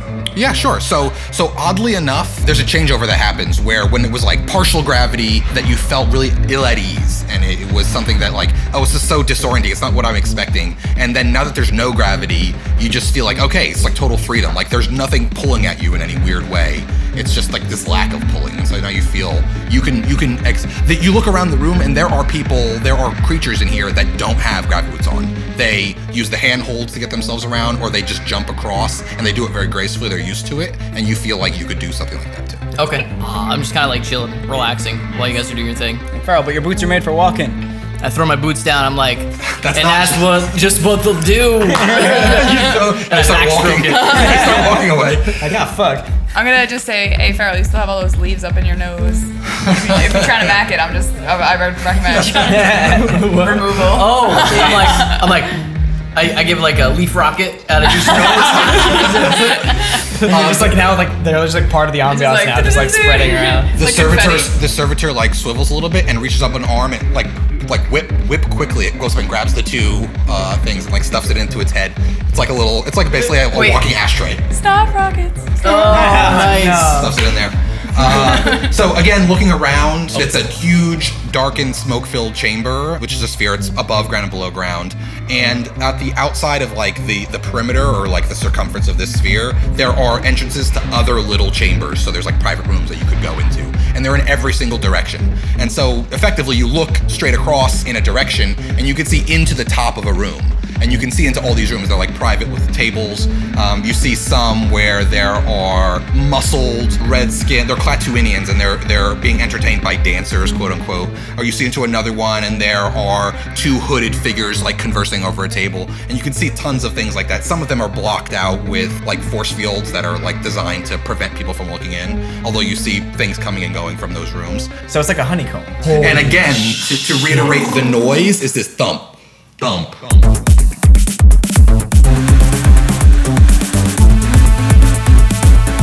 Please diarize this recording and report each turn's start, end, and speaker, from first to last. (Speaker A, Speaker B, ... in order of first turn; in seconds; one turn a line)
Speaker A: 0.3-32.7
Speaker B: 32.8-36.0
Speaker C: 36.1-37.6
Speaker B: 38.0-44.8
Speaker A: 39.5-40.5
Speaker C: 41.8-42.4
Speaker A: 41.9-45.5
Speaker C: 44.1-44.8
Speaker C: 45.4-46.1
Speaker D: 46.3-55.3
Speaker A: 49.7-50.2
Speaker A: 52.1-52.4
Speaker C: 52.4-53.8
Speaker B: 53.1-55.6
Speaker B: 56.1-60.0
Speaker C: 60.2-63.8
Speaker A: 60.3-60.9
Speaker D: 62.1-64.6
Speaker A: 63.8-74.4
Speaker D: 73.2-73.9
Speaker D: 74.4-76.4
Speaker B: 75.6-77.1
Speaker C: 75.8-77.2
Speaker A: 76.8-124.7
Speaker D: 78.0-78.7
Speaker C: 124.9-126.4
Speaker A: 125.9-130.3